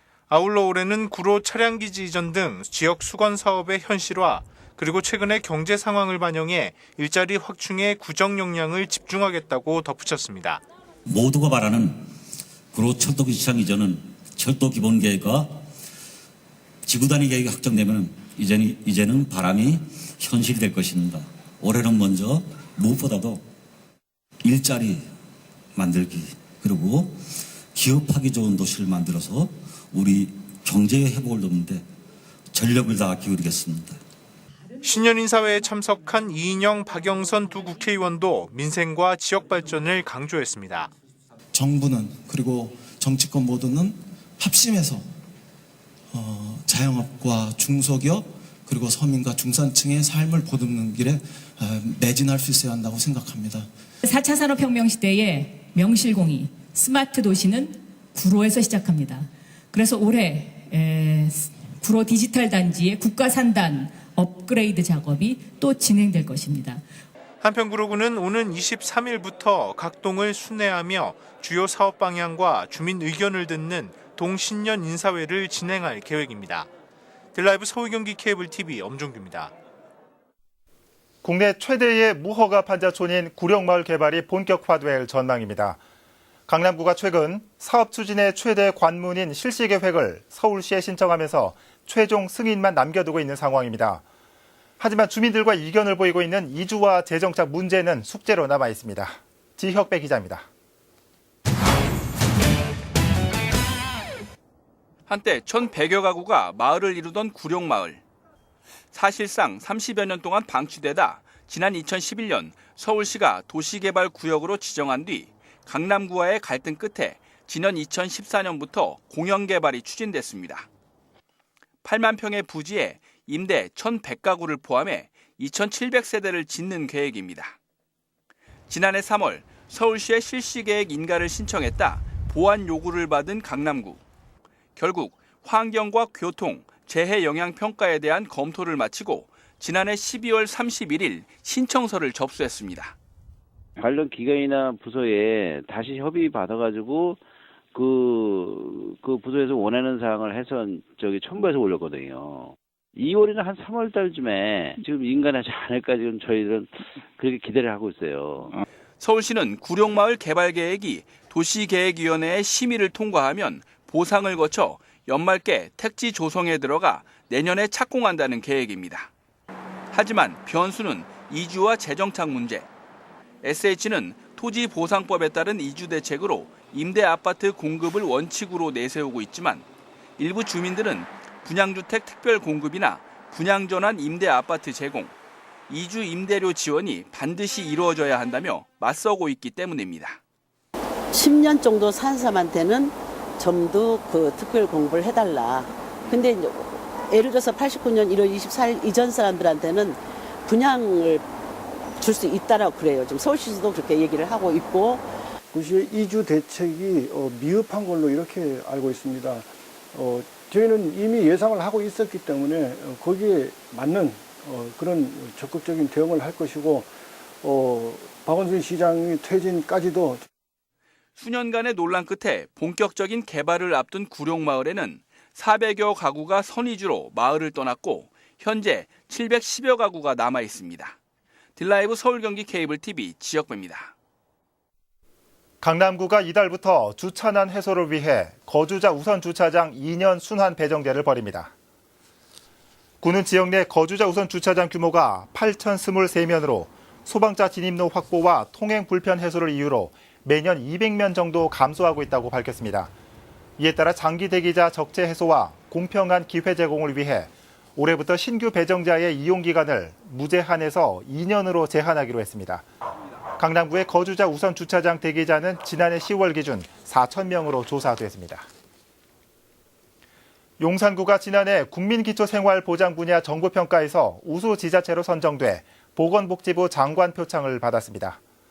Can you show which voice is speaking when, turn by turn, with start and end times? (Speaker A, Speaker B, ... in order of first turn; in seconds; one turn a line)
Speaker A: 0.3-10.6
Speaker B: 11.1-12.1
Speaker B: 12.7-15.7
Speaker B: 16.9-23.5
Speaker B: 24.4-25.1
Speaker B: 25.8-31.9
Speaker B: 32.5-34.0
Speaker A: 34.8-40.9
Speaker C: 41.5-45.1
Speaker C: 46.1-53.7
Speaker D: 54.0-66.8
Speaker A: 67.4-76.7
Speaker A: 77.3-79.5
Speaker E: 81.2-85.8
Speaker E: 86.5-94.0
Speaker E: 94.8-100.5
Speaker F: 105.1-108.0
Speaker F: 108.9-120.7
Speaker F: 121.8-127.5
Speaker F: 128.7-134.0
Speaker F: 134.8-142.9
Speaker G: 143.8-147.2
Speaker G: 147.7-158.6
Speaker F: 159.0-169.1
Speaker F: 169.9-172.7
Speaker F: 173.4-179.7
Speaker F: 180.2-185.1
Speaker F: 185.7-190.2
Speaker H: 191.1-201.2
Speaker H: 202.0-205.0
Speaker I: 205.5-216.9
Speaker I: 217.4-220.2
Speaker F: 221.2-231.0
Speaker F: 231.6-233.9
Speaker E: 235.6-241.5
Speaker E: 243.0-252.9
Speaker E: 253.6-262.7
Speaker E: 263.4-268.5
Speaker E: 270.6-278.2